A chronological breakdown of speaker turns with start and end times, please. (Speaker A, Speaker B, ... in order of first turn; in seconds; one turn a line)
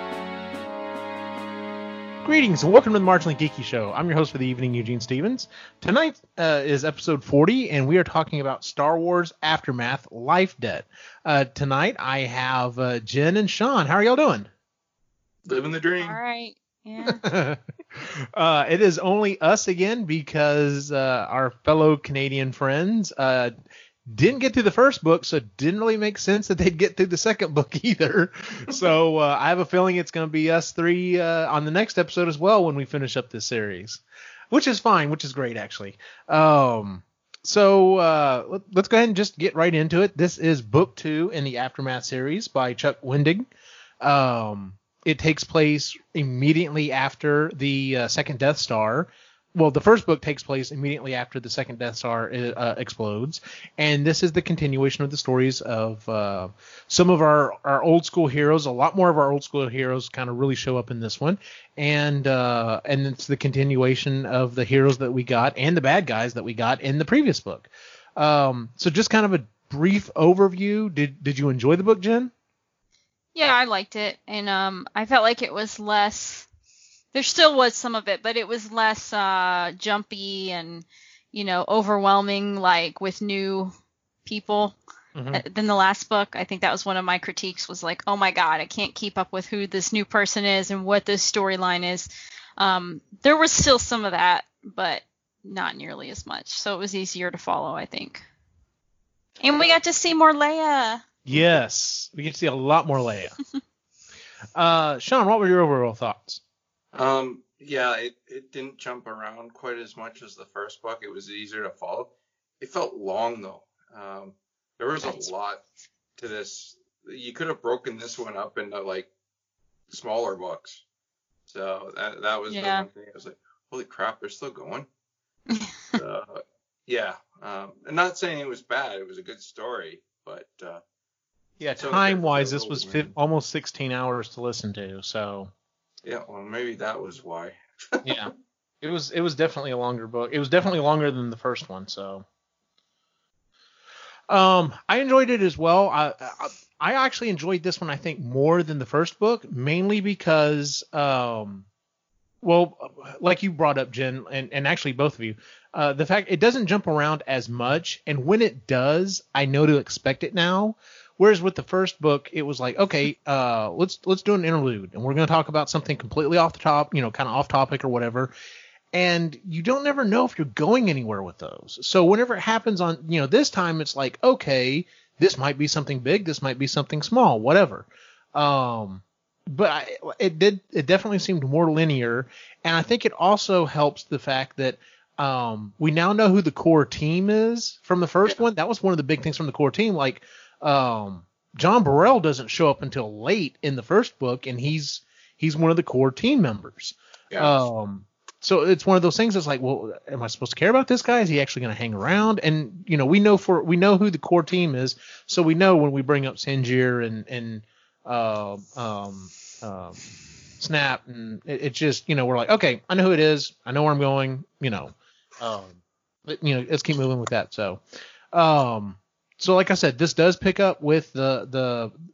Speaker A: 2.2-14.5
Speaker B: 15.5-16.2
Speaker C: 16.0-17.2
Speaker A: 17.0-23.5
Speaker A: 24.1-43.5
Speaker A: 44.0-72.3
Speaker C: 73.3-76.5
Speaker C: 77.1-83.7
Speaker C: 84.2-84.8
Speaker A: 85.2-85.4
Speaker C: 85.3-98.2
Speaker C: 99.4-101.4
Speaker A: 101.2-103.4
Speaker A: 104.6-106.4
Speaker B: 106.9-115.6
Speaker C: 115.0-115.3
Speaker B: 116.2-119.1
Speaker B: 119.9-120.8
Speaker B: 121.5-124.9
Speaker C: 122.5-122.9
Speaker C: 125.5-125.9
Speaker B: 126.0-130.8
Speaker A: 131.6-135.5
Speaker B: 131.8-133.1
Speaker B: 136.0-138.3
Speaker A: 138.0-142.2
Speaker A: 144.3-151.7
Speaker A: 152.4-168.3
Speaker A: 168.9-210.0
Speaker B: 197.3-197.6
Speaker A: 210.6-217.8
Speaker A: 218.3-221.9